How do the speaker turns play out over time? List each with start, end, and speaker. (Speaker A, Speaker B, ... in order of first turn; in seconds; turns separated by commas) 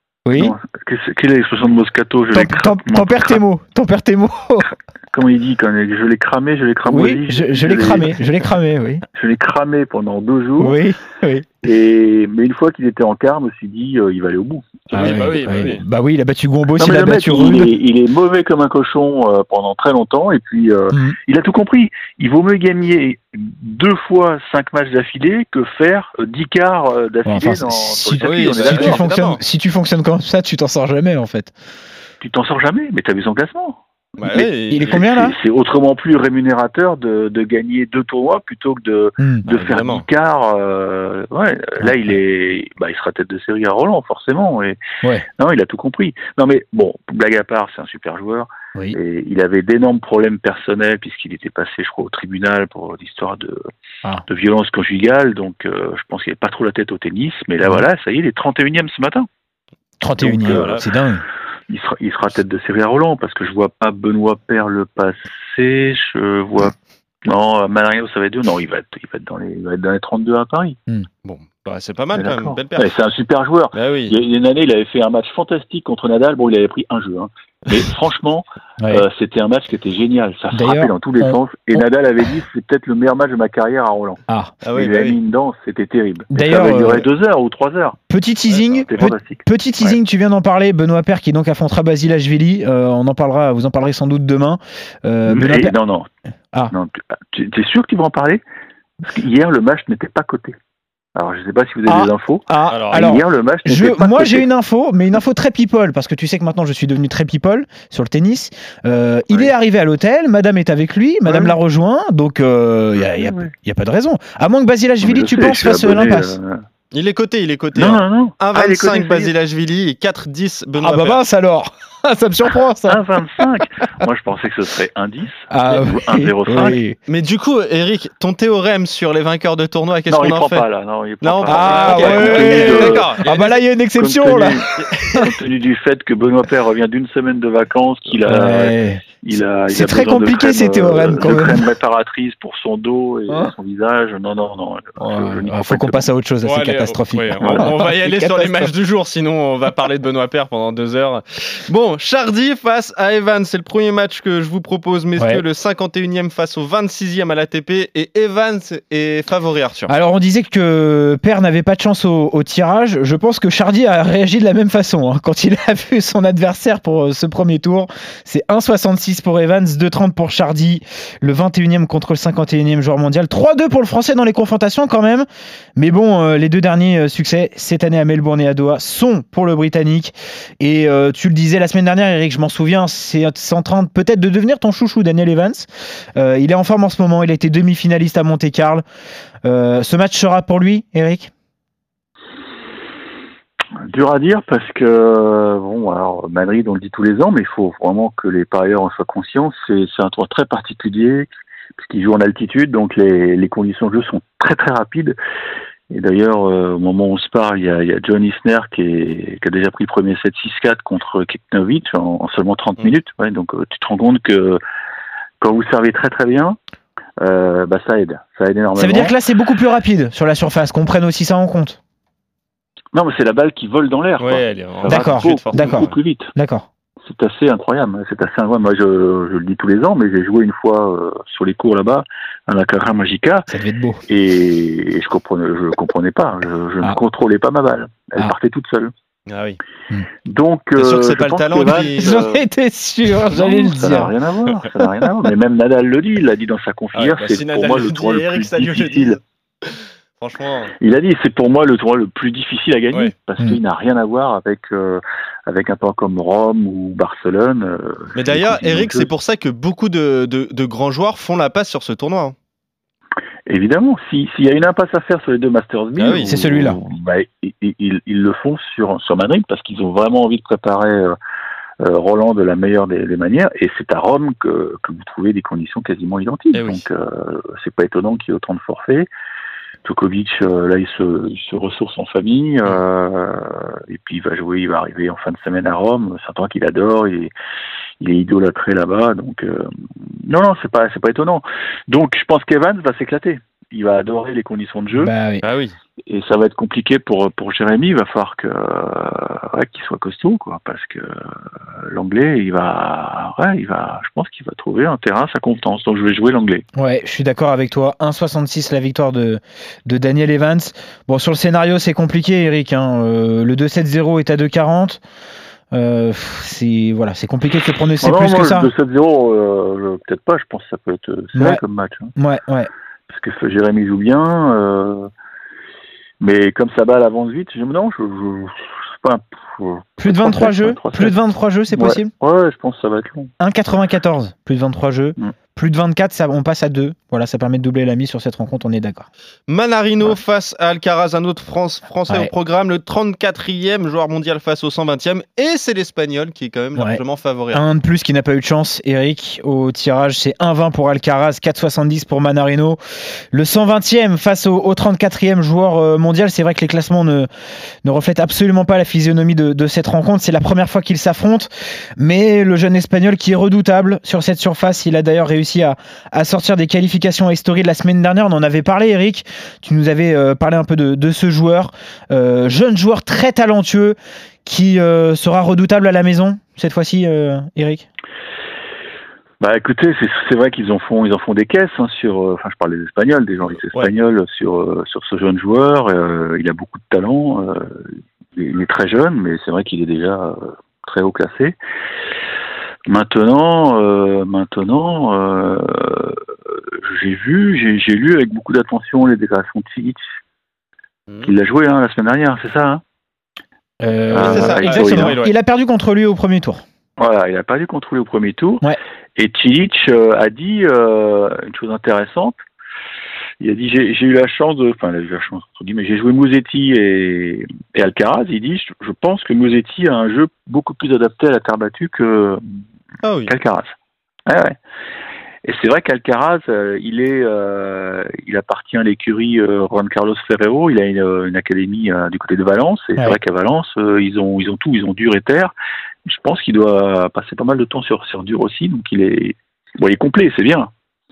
Speaker A: 0.2-0.5, Speaker B: 0.3-3.4, Speaker A: 2.3-4.7, Speaker B: 5.1-8.2, Speaker A: 6.8-9.0, Speaker B: 9.1-10.8, Speaker A: 10.6-11.7, Speaker B: 11.6-14.9, Speaker C: 14.9-15.8, Speaker A: 14.9-17.8, Speaker B: 16.8-29.0, Speaker A: 20.9-21.2, Speaker A: 27.2-31.5, Speaker C: 28.2-29.4, Speaker B: 32.2-33.8, Speaker C: 34.2-35.1, Speaker A: 34.3-35.4, Speaker B: 35.0-44.8, Speaker A: 39.2-39.4, Speaker C: 39.5-40.0, Speaker A: 41.8-42.2, Speaker B: 45.4-53.7, Speaker B: 54.3-59.3, Speaker A: 60.0-61.2, Speaker B: 60.2-60.8, Speaker C: 60.4-60.8, Speaker B: 61.7-70.8, Speaker C: 71.2-72.9, Speaker B: 72.1-84.2, Speaker C: 73.7-74.2, Speaker A: 78.8-79.0, Speaker A: 80.5-81.8, Speaker A: 84.3-84.5, Speaker C: 84.6-85.2, Speaker B: 84.7-88.0, Speaker A: 86.3-87.1, Speaker A: 88.1-95.7, Speaker B: 88.6-89.9, Speaker B: 95.3-96.1, Speaker B: 96.7-98.4, Speaker B: 99.0-100.5, Speaker B: 101.1-104.5, Speaker A: 101.9-116.4, Speaker C: 102.7-103.1, Speaker B: 111.2-111.6, Speaker B: 113.2-113.5, Speaker B: 115.0-116.6, Speaker C: 116.9-121.2, Speaker B: 117.7-119.3, Speaker A: 120.8-123.5, Speaker B: 122.8-126.8, Speaker A: 125.5-127.0, Speaker C: 127.1-130.6, Speaker B: 130.1-133.2, Speaker C: 131.2-133.6, Speaker A: 131.5-135.3, Speaker B: 134.0-146.1, Speaker C: 134.8-135.2, Speaker A: 138.2-139.0, Speaker A: 139.7-141.7, Speaker A: 145.0-148.7, Speaker C: 146.4-159.9, Speaker A: 155.2-155.4, Speaker A: 159.9-188.8, Speaker A: 189.4-191.3, Speaker B: 193.9-205.2, Speaker B: 205.9-214.6, Speaker B: 215.4-216.6, Speaker B: 217.2-219.2, Speaker A: 218.7-221.8, Speaker B: 222.9-226.3, Speaker C: 224.2-225.9, Speaker A: 224.9-226.7, Speaker B: 227.0-233.5, Speaker A: 233.5-234.0, Speaker B: 234.1-238.9, Speaker C: 239.3-239.6, Speaker B: 240.2-242.4, Speaker C: 240.8-242.2, Speaker A: 242.0-244.1, Speaker B: 243.3-249.2, Speaker C: 246.9-250.7, Speaker B: 250.8-259.1, Speaker C: 258.1-262.3, Speaker B: 263.5-271.1, Speaker C: 266.0-266.3, Speaker A: 266.2-266.8, Speaker B: 271.8-279.1, Speaker C: 276.5-276.9, Speaker B: 279.8-287.3, Speaker B: 288.0-289.7, Speaker B: 290.2-295.1, Speaker A: 294.9-295.4, Speaker C: 295.4-295.7, Speaker B: 296.1-301.2, Speaker B: 301.8-306.6, Speaker A: 306.7-315.0, Speaker A: 315.7-318.7, Speaker B: 318.0-322.1, Speaker A: 321.3-321.6, Speaker A: 322.1-322.7, Speaker B: 323.1-325.1, Speaker B: 326.2-331.1, Speaker A: 330.0-332.1, Speaker B: 331.7-333.3, Speaker A: 333.4-339.1, Speaker C: 339.5-347.6, Speaker A: 347.5-352.8, Speaker A: 353.3-357.3, Speaker A: 357.8-377.9, Speaker B: 379.4-391.6, Speaker B: 392.9-400.0, Speaker B: 401.2-402.8, Speaker A: 403.8-406.6, Speaker B: 404.1-405.2, Speaker C: 404.1-405.3, Speaker B: 407.0-412.4, Speaker B: 413.4-422.4, Speaker C: 423.0-423.3, Speaker B: 423.3-423.7, Speaker B: 424.2-424.6, Speaker B: 425.4-435.5, Speaker B: 436.0-440.7